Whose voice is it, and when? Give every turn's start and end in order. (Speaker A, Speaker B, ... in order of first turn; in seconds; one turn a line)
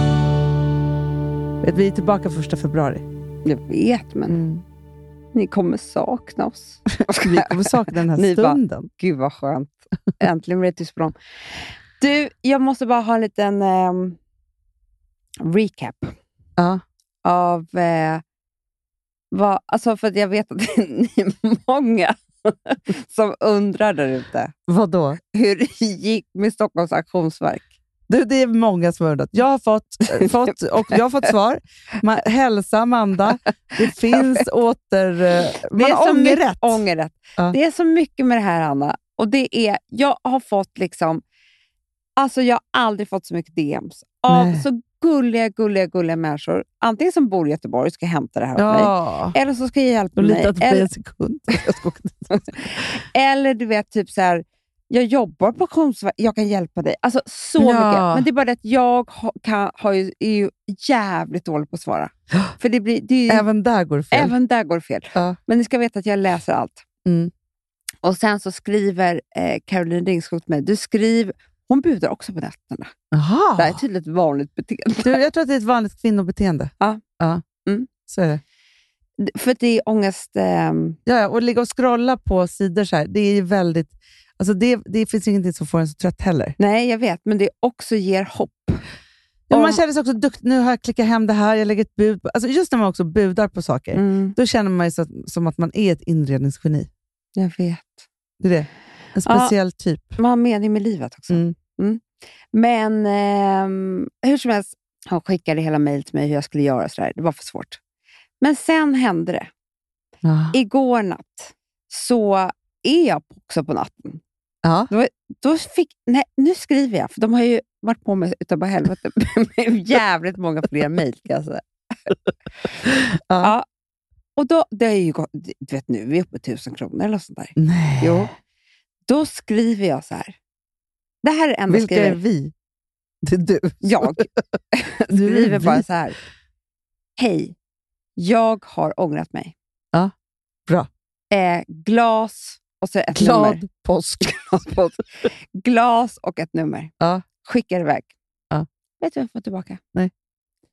Speaker A: 1.6-3.0
Speaker B: 3.4-4.4
Speaker A: 4.3-4.6
Speaker B: 5.3-14.2
Speaker A: 7.1-8.9
Speaker B: 15.4-16.1
Speaker B: 17.2-18.2
Speaker B: 19.3-24.5
Speaker A: 24.7-25.2
Speaker B: 25.2-27.7
Speaker A: 28.1-36.8
Speaker B: 30.1-30.9
Speaker B: 34.1-34.4
Speaker B: 35.7-41.2
Speaker B: 42.2-50.9
Speaker A: 44.3-44.6
Speaker A: 48.6-49.4
Speaker A: 50.2-52.9
Speaker B: 52.5-63.5
Speaker A: 57.6-58.2
Speaker A: 63.3-64.3
Speaker B: 64.1-66.8
Speaker A: 67.0-67.3
Speaker B: 68.0-72.9
Speaker A: 73.1-73.8
Speaker B: 73.6-75.2
Speaker A: 75.0-77.4
Speaker A: 78.1-78.4
Speaker B: 79.2-81.0
Speaker A: 81.0-86.5
Speaker B: 86.6-88.8
Speaker A: 89.5-96.9
Speaker B: 89.5-89.8
Speaker B: 93.9-94.3
Speaker B: 97.3-98.0
Speaker A: 98.4-100.2
Speaker B: 99.2-99.5
Speaker B: 100.2-107.8
Speaker A: 101.3-101.5
Speaker B: 108.4-109.5
Speaker A: 110.2-110.5
Speaker B: 110.5-114.2
Speaker A: 114.6-114.9
Speaker B: 114.9-121.6
Speaker A: 122.9-123.5
Speaker B: 124.3-128.3
Speaker A: 127.5-128.3
Speaker B: 129.1-130.3
Speaker B: 131.2-132.2
Speaker A: 131.7-132.5
Speaker A: 133.2-134.3
Speaker B: 133.8-136.2
Speaker A: 135.1-135.8
Speaker B: 137.2-137.5
Speaker B: 138.2-139.5
Speaker B: 141.3-143.6
Speaker A: 143.1-144.7
Speaker B: 144.2-148.1
Speaker B: 149.0-149.8